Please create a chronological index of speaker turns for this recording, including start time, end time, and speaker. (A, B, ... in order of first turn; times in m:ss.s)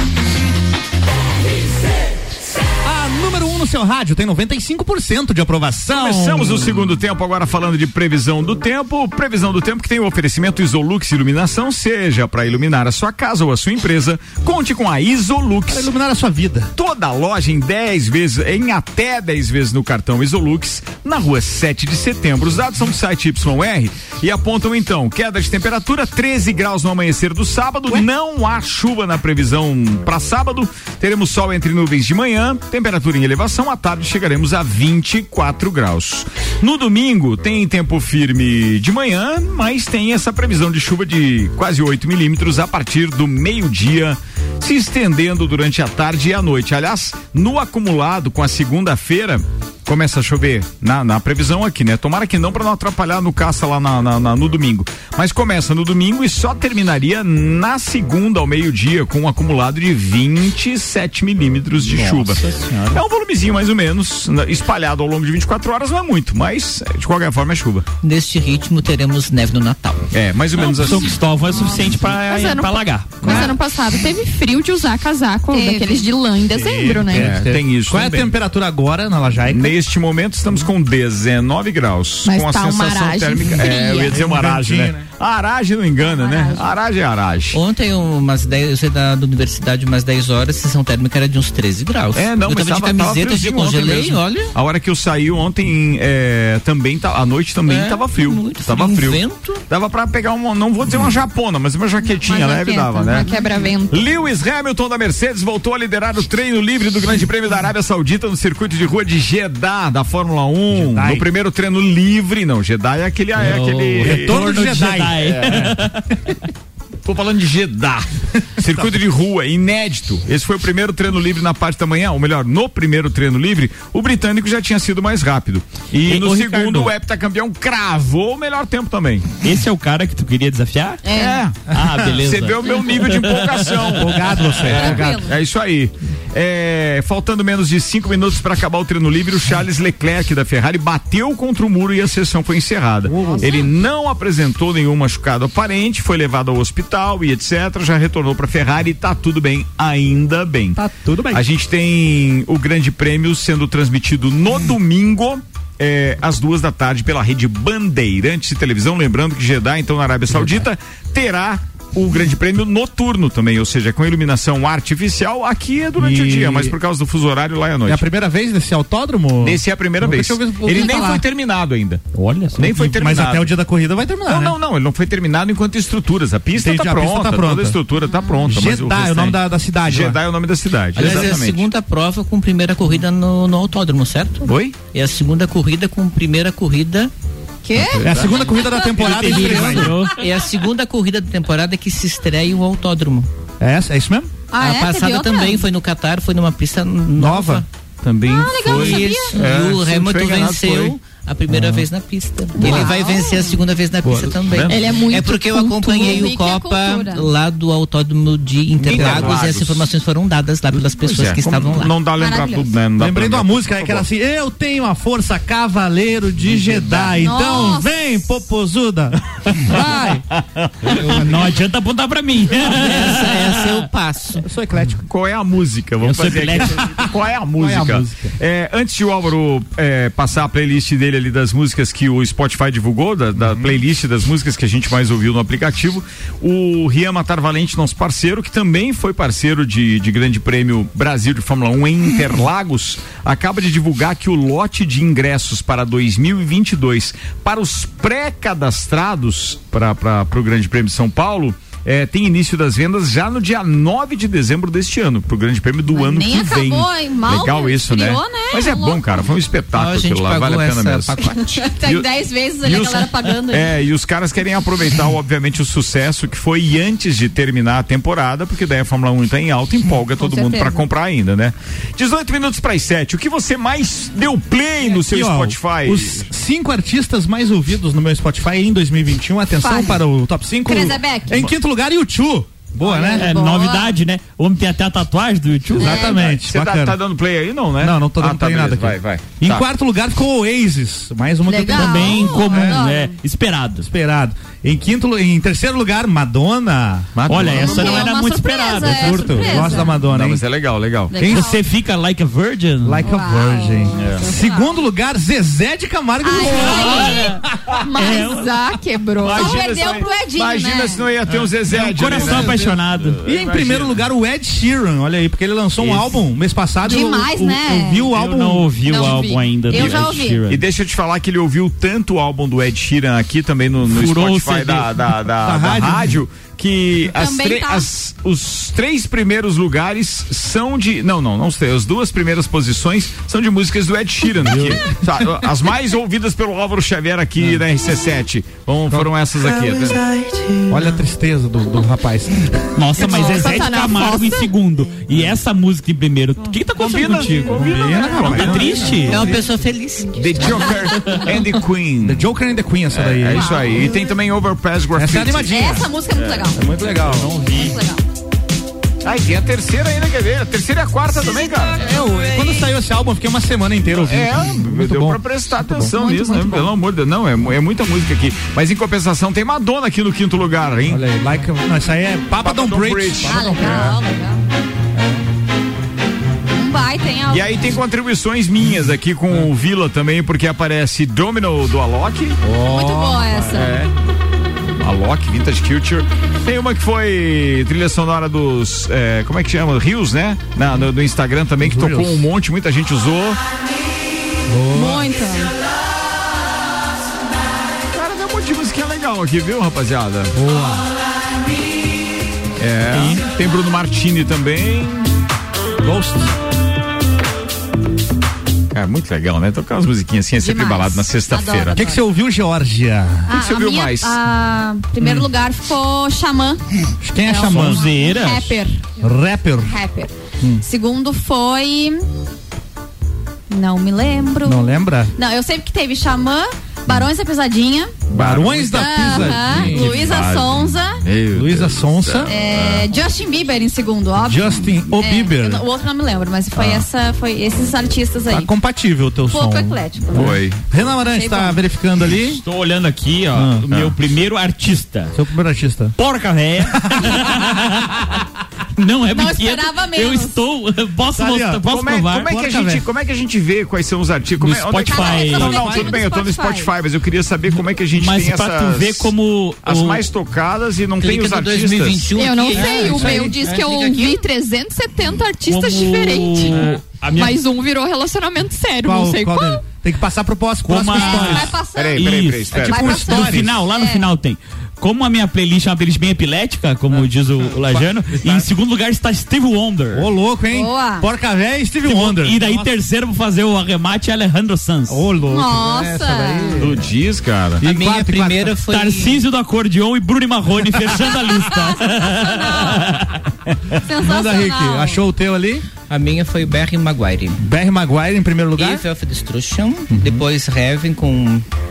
0:02.8-0:06.9 A
0:05.9-0:15.9 B
0:15.7-0:16.7 A
0:16.8-1:07.8 B
1:01.8-1:03.0 A
1:08.0-1:10.1 C
1:10.1-1:11.2 B
1:10.5-1:13.5 D
1:12.1-1:17.3 E
1:13.2-1:13.5 B
1:15.5-1:16.1 F
1:16.5-1:19.7 A
1:17.1-1:18.3 B
1:19.5-1:27.6 B
1:22.2-1:24.2 E
1:24.0-1:25.0 A
1:26.0-1:26.7 F
1:27.5-1:34.5 C
1:32.1-1:43.3 B
1:37.6-1:39.6 C
1:42.2-1:43.8 F
1:42.4-1:44.0 E
1:43.9-1:54.6 B
1:50.7-1:51.3 A
1:53.4-1:56.1 D
1:54.0-1:55.8 A
1:55.2-1:55.7 B
1:57.0-2:09.3 B
1:58.6-1:59.0 A
2:06.0-2:06.9 D
2:09.4-2:11.0 D
2:11.0-2:11.4 F
2:11.1-2:48.0 B
2:11.7-2:14.0 D
2:13.9-2:15.2 A
2:14.7-2:15.3 F
2:23.0-2:23.7 A
2:23.2-2:23.7 F
2:30.8-2:31.4 A
2:40.3-2:40.6 A
2:46.0-2:46.8 A
2:47.8-2:51.2 A
2:49.4-2:52.0 B
2:50.7-2:51.1 F
2:52.1-2:52.7 D
2:52.6-2:53.5 B
2:52.6-2:54.6 A
2:54.3-3:01.7 B
2:56.6-2:57.8 A
2:58.1-2:58.4 F
2:58.4-3:00.2 A
3:00.9-3:07.1 C
3:01.0-3:01.3 A
3:04.4-3:04.8 B
3:07.6-3:08.9 F
3:07.8-3:08.5 B
3:08.0-3:10.0 A
3:09.0-3:10.2 D
3:09.1-3:09.3 B
3:09.2-3:13.3 C
3:13.6-3:14.3 A
3:14.5-3:15.6 F
3:14.6-3:17.6 C
3:17.1-3:17.6 A
3:18.0-3:21.0 B
3:18.2-3:19.4 F
3:18.6-3:31.9 C
3:21.5-3:21.8 A
3:22.5-3:23.6 F
3:22.6-3:22.9 B
3:24.0-3:24.4 A
3:24.5-3:24.9 B
3:24.7-3:26.2 E
3:25.6-3:27.3 F
3:28.8-3:29.9 B
3:28.9-3:29.4 A
3:30.7-3:34.0 B
3:32.2-3:32.8 F
3:33.0-3:40.2 A
3:36.4-3:37.2 B
3:37.2-3:37.9 F
3:39.7-3:41.0 B
3:40.8-3:41.6 A
3:40.9-3:43.8 D
3:42.6-3:44.4 C
3:44.4-3:45.0 A
3:45.0-4:22.1 B
3:46.0-3:46.8 D
3:46.6-3:48.4 A
3:53.4-3:53.7 A
4:15.9-4:19.3 F
4:19.7-4:21.6 C
4:21.2-4:23.7 F
4:22.6-4:36.2 B
4:30.2-4:30.8 F
4:34.8-4:43.3 A
4:39.6-4:40.0 F
4:40.6-4:41.5 F
4:42.8-4:43.9 F
4:43.1-4:46.1 D
4:45.7-4:47.0 A
4:45.8-4:46.3 F
4:45.9-4:49.6 B
4:47.8-4:52.8 A
4:51.4-4:53.2 F
4:51.7-4:53.9 D
4:53.8-4:57.9 A
4:57.2-4:58.1 B
4:57.3-4:59.7 D
4:57.5-5:00.0 F
4:58.8-5:00.4 A
4:59.9-5:01.2 B
5:01.1-5:01.6 F
5:01.1-5:01.5 A
5:01.2-5:03.0 D
5:02.8-5:07.4 A
5:03.0-5:04.8 F
5:04.0-5:04.3 B
5:06.2-5:08.4 F
5:06.5-5:07.4 D
5:08.0-5:09.6 E
5:08.0-5:08.8 D
5:09.2-5:14.0 B
5:09.2-5:11.1 F
5:11.4-5:12.7 A
5:11.7-5:13.2 D
5:13.2-5:18.7 A
5:15.8-5:16.1 B
5:16.8-5:18.1 F
5:18.1-5:20.6 D
5:18.8-5:20.4 F
5:19.7-5:40.0 B
5:23.9-5:25.1 D
5:25.4-5:26.2 A
5:27.1-5:27.9 F
5:34.4-5:35.3 A
5:39.4-5:41.0 C
5:40.7-5:42.7 A
5:42.8-5:49.3 D
5:43.0-5:44.4 E
5:46.8-5:49.0 B
5:46.9-5:49.4 A
5:49.0-5:50.8 C
5:50.2-5:52.2 B
5:52.0-5:53.5 A
5:52.9-5:55.6 B
5:53.3-5:54.1 F
5:54.9-5:55.9 A
5:55.5-5:56.6 F
5:56.1-5:56.5 B
5:56.5-5:57.3 A
5:57.1-5:57.8 D
5:57.5-5:58.0 F
5:59.0-6:01.9 B
6:01.2-6:01.5 F
6:01.7-6:06.0 A
6:03.9-6:11.0 B
6:05.9-6:06.7 F
6:10.9-6:14.0 A
6:12.4-6:13.9 B
6:13.2-6:14.4 F
6:14.9-6:15.2 A
6:16.5-6:17.8 F
6:17.3-6:22.4 B
6:22.4-6:23.7 A
6:22.6-6:23.8 F
6:23.5-6:23.9 B
6:24.8-6:33.4 B
6:31.6-6:32.3 A
6:34.5-6:35.1 A
6:34.7-6:35.5 F
6:37.9-6:40.3 B
6:40.3-6:40.8 A
6:42.6-6:45.1 B
6:42.9-6:43.2 A
6:45.8-6:46.3 A
6:48.7-6:51.8 B
6:50.4-6:52.0 F
6:51.7-6:53.3 A
6:53.3-6:56.6 F
6:53.3-6:54.2 B
6:55.0-6:55.3 A
6:57.0-6:57.9 A
6:57.2-6:58.9 F
6:57.3-6:58.6 D
6:59.0-6:59.7 A
6:59.6-7:02.0 F
7:03.5-7:07.9 F
7:04.4-7:05.1 A
7:08.1-7:12.9 B
7:08.1-7:10.0 A
7:08.7-7:11.0 F
7:11.3-7:12.3 A
7:12.2-7:18.5 F
7:14.2-7:15.6 A
7:16.6-7:16.8 B
7:18.3-7:22.4 A
7:19.3-7:20.3 F
7:20.1-7:20.7 B
7:20.9-7:21.6 F
7:22.2-7:25.1 D
7:23.3-7:23.6 A
7:25.1-7:25.9 A
7:26.0-7:28.1 D
7:26.7-7:27.2 A
7:28.8-7:32.3 D
7:29.1-7:30.4 F
7:31.1-7:32.8 A
7:31.7-7:39.1 B
7:34.4-7:35.7 D
7:34.8-7:36.7 F
7:35.3-7:36.0 A
7:37.9-7:40.0 D
7:39.6-7:42.1 B
7:41.0-7:44.2 C
7:42.1-7:49.6 E
7:42.7-7:43.3 A
7:45.4-7:47.4 D
7:48.8-7:51.6 A
7:50.6-8:00.1 D
7:50.9-7:54.1 F
7:51.7-7:53.4 B
7:52.6-7:53.6 A
7:56.9-7:58.4 A
7:59.9-8:02.7 A
8:00.5-8:01.1 F
8:01.8-8:05.1 D
8:04.9-8:06.9 A
8:05.2-8:06.7 F
8:06.6-8:07.6 B
8:07.6-8:08.6 A
8:07.6-8:09.2 C
8:08.7-8:13.2 D
8:12.1-8:12.8 F
8:13.8-8:15.0 F
8:13.9-8:15.6 A
8:15.9-8:17.4 C
8:17.4-8:18.8 A
8:18.6-8:21.4 C
8:19.9-8:20.2 A